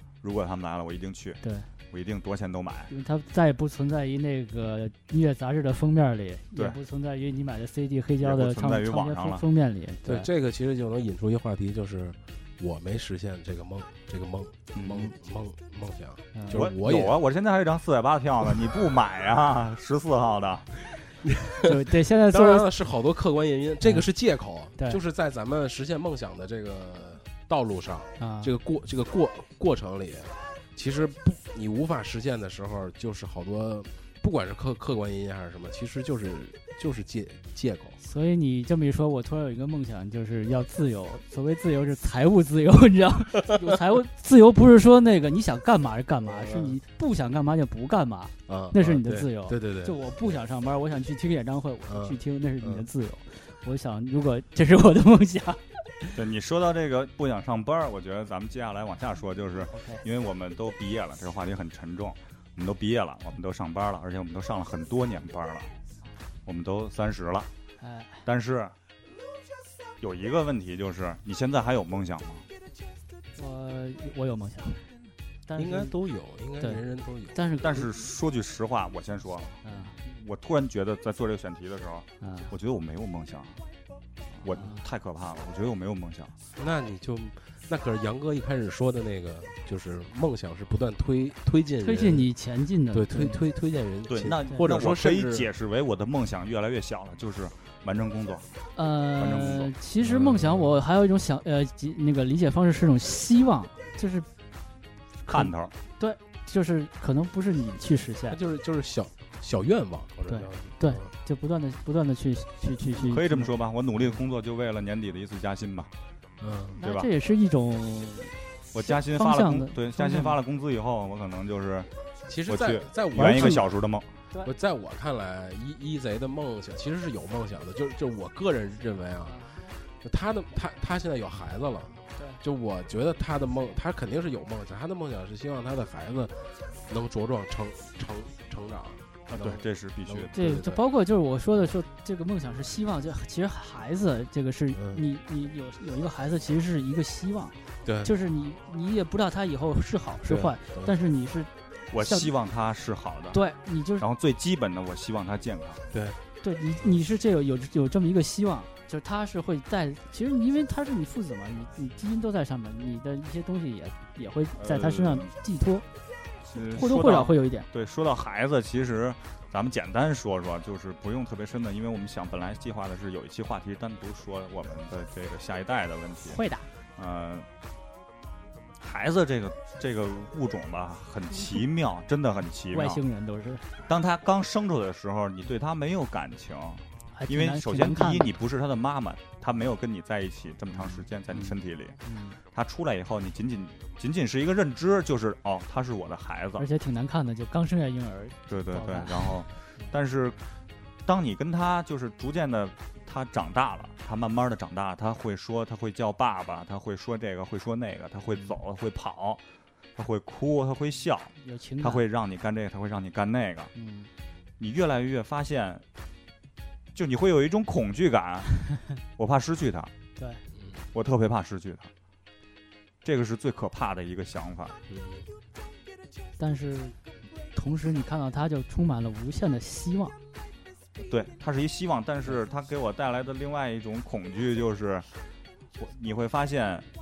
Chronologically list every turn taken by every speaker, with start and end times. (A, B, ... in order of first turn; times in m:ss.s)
0:00.2-0:02.9 A
0:01.4-0:01.7 B
0:02.9-0:10.3 B
0:08.2-0:09.4 A
0:10.0-0:17.2 C
0:14.8-0:15.1 A
0:16.3-0:16.6 B
0:16.5-0:20.7 A
0:21.2-0:21.6 C
0:21.6-0:22.7 B
0:22.3-0:38.0 C
0:28.2-0:28.5 B
0:38.0-0:56.2 B
0:46.2-0:46.8 C
0:48.5-0:50.0 C
0:51.9-0:52.8 C
0:56.2-1:05.7 A
0:59.7-1:00.0 B
1:06.4-1:07.5 A
1:07.8-1:08.3 B
1:08.2-1:08.8 A
1:10.0-1:12.5 A
1:13.4-1:14.9 B
1:15.5-1:16.0 B
1:15.6-1:17.9 C
1:17.3-1:17.7 B
1:17.6-1:23.6 A
1:19.6-1:20.0 B
1:22.2-1:22.5 B
1:24.3-1:24.8 B
1:24.4-1:26.3 A
1:26.6-1:32.3 C
1:31.8-1:33.4 B
1:32.9-1:35.5 C
1:34.1-1:38.5 A
1:38.8-1:44.3 B
1:39.2-1:39.7 A
1:40.0-1:40.7 C
1:45.2-1:48.4 B
1:45.3-1:45.7 A
1:48.3-1:51.1 C
1:50.3-1:53.5 B
1:53.0-1:55.9 A
1:56.4-1:56.8 C
1:56.8-2:00.4 B
1:56.8-1:57.1 A
1:58.7-2:01.9 A
2:02.3-2:03.7 C
2:02.5-2:04.1 A
2:03.2-2:03.6 B
2:04.4-2:09.5 C
2:09.2-2:09.6 B
2:10.0-2:20.8 C
2:12.2-2:12.4 B
2:19.3-2:20.3 A
2:20.3-2:32.3 B
2:24.8-2:25.0 C
2:27.8-2:28.1 C
2:30.2-2:30.9 C
2:31.9-2:33.5 A
2:33.3-2:34.0 B
2:34.0-2:35.8 A
2:35.9-2:36.2 C
2:36.4-2:45.9 B
2:44.6-2:45.3 A
2:46.5-2:56.4 A
2:46.5-2:47.7 B
2:56.2-2:56.7 B
2:57.0-2:57.5 A
2:58.8-3:03.0 A
3:02.7-3:03.7 B
3:03.9-3:12.0 A
3:07.1-3:08.3 B
3:12.0-3:12.4 B
3:12.5-3:16.7 A
3:16.6-3:19.4 B
3:18.5-3:20.4 A
3:21.0-3:29.4 A
3:30.0-3:33.7 A
3:31.4-3:32.0 B
3:33.8-3:34.1 B
3:34.6-3:35.8 A
3:36.9-3:39.9 A
3:40.2-3:40.4 B
3:40.6-3:40.9 C
3:40.9-3:41.9 A
3:43.0-3:44.8 A
3:44.9-3:45.3 C
3:46.4-3:47.0 B
3:47.5-3:50.2 B
3:51.1-3:55.1 A
3:55.8-3:56.9 A